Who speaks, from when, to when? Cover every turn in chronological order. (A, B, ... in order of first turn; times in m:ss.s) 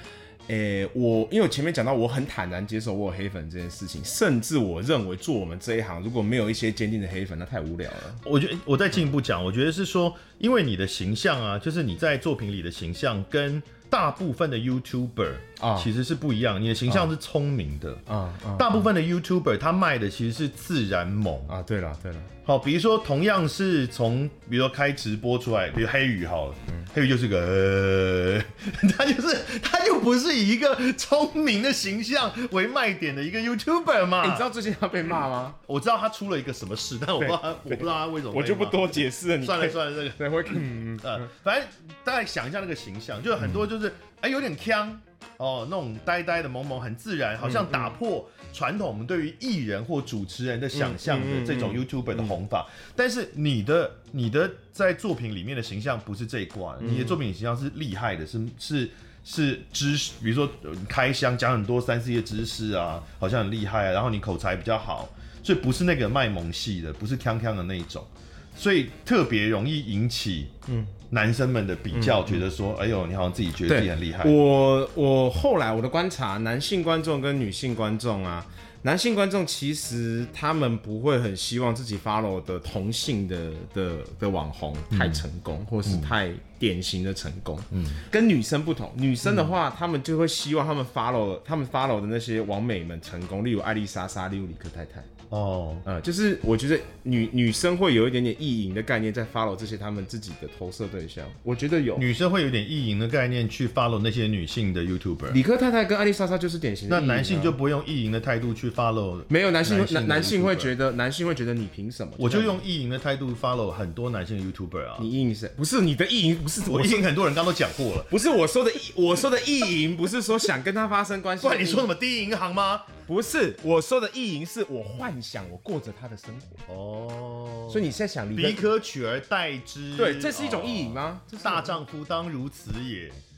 0:00.5-0:08.2 A
0:08.2-0:18.0 B
0:15.6-0:15.9 A
0:18.1-0:18.8 A
0:18.5-0:21.5 B
0:21.5-0:22.3 A
0:22.4-0:34.4 B
0:34.2-0:35.6 A
0:35.6-0:40.3 B
0:37.2-0:41.3 A
0:41.0-1:10.5 B
0:47.4-0:47.9 A
0:50.7-0:52.3 A
0:56.8-0:57.2 A
1:10.7-1:10.9 A
1:11.1-1:14.4 B
1:11.9-1:12.4 A
1:13.7-1:35.1 A
1:24.9-1:25.2 B
1:25.8-1:26.1 B
1:27.7-1:28.0 B
1:29.2-1:29.5 B
1:35.3-1:35.8 B
1:35.8-1:42.0 A
1:42.0-1:45.4 B
1:45.3-1:47.6 A
1:46.9-1:50.7 B
1:49.3-1:52.6 A
1:52.2-1:55.1 B
1:55.0-1:57.1 A
1:56.6-1:58.1 B
1:58.1-2:01.9 A
2:01.4-2:02.9 B
2:03.0-2:06.6 A
2:06.7-2:13.2 B
2:07.7-2:08.6 A
2:10.0-2:11.8 A